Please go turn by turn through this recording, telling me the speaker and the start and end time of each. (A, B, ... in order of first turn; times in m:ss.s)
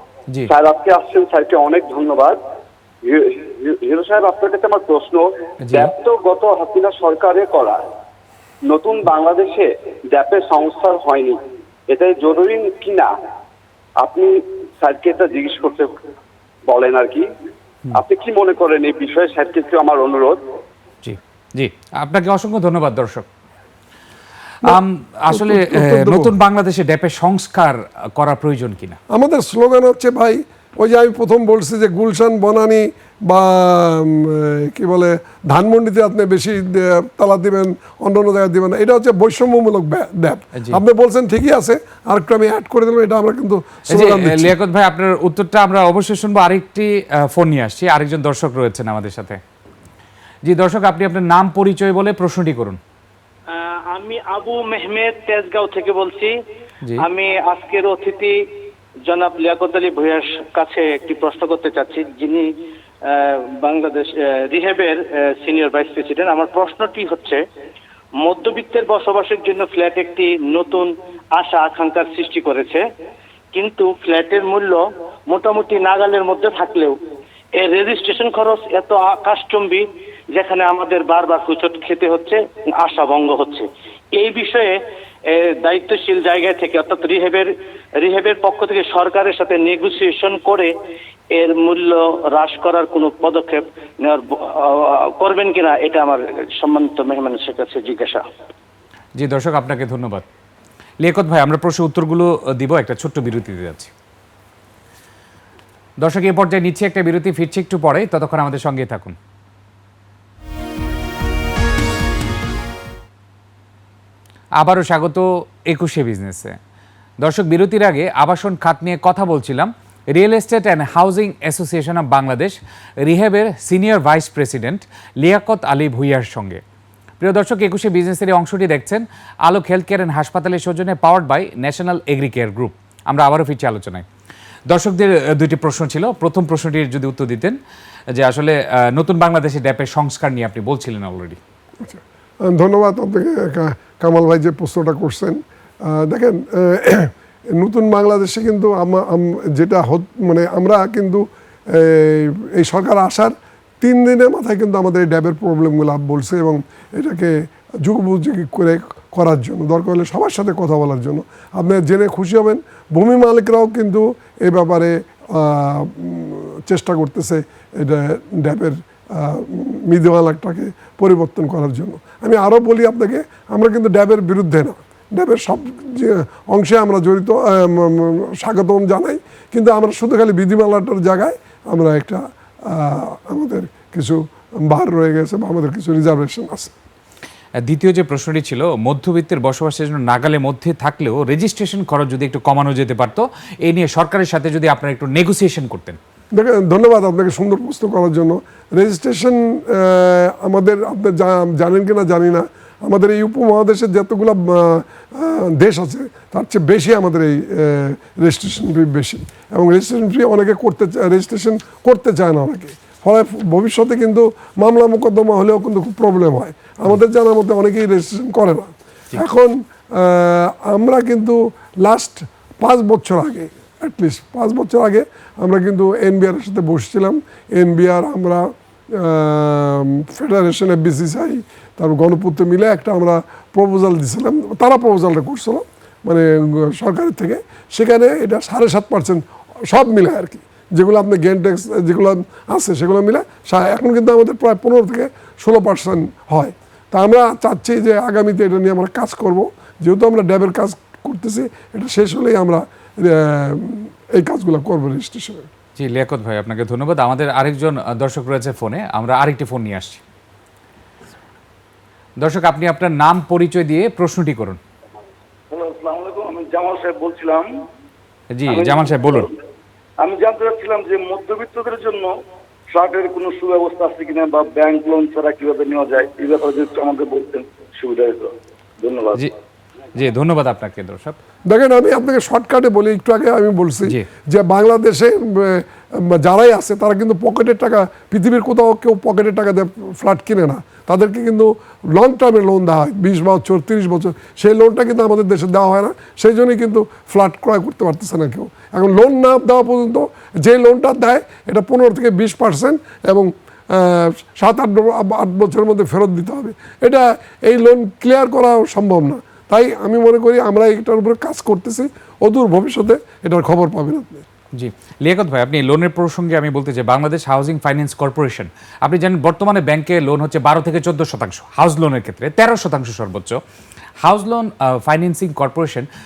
0:00.5-0:02.4 A
0:03.0-0:07.8 A
0:05.6-0:05.9 B
0:08.6-0:13.1 A
0:14.0-0:15.9 A
0:16.6-0:17.3 A
0:17.9-0:20.4 A
0:21.0-0:23.2 B
0:24.6-0:26.3 C
0:24.6-0:29.0 B
0:29.1-0:44.6 C
0:40.5-0:40.8 B
0:43.9-0:49.4 B
0:50.4-0:52.8 B
0:53.5-0:56.3 D
0:57.0-0:58.4 D
0:59.0-1:02.5 D
1:03.0-1:07.4 D
1:08.2-1:12.8 D
1:13.5-1:17.0 D
1:17.6-1:24.8 D
1:25.3-1:30.7 D
1:31.3-1:38.2 D
1:39.2-1:40.2 B
1:41.0-1:43.9 B
1:46.0-1:49.2 B
1:54.6-1:56.6 B
1:57.2-2:06.6 B
2:07.2-2:14.0 B
2:14.7-2:17.6 B
2:18.1-2:21.4 B
2:21.8-3:06.7 C
3:07.6-3:16.0 B
3:16.3-4:15.5 C
4:15.8-4:20.0 B
4:22.2-4:24.6 B
4:25.5-4:27.6 E
4:28.3-4:29.3 B
4:28.5-4:29.2 E
4:30.0-4:32.2 E
4:32.7-4:39.2 E
4:39.9-4:41.2 B
4:41.4-5:14.2 C
5:14.5-5:23.4 B
5:24.0-5:25.9 B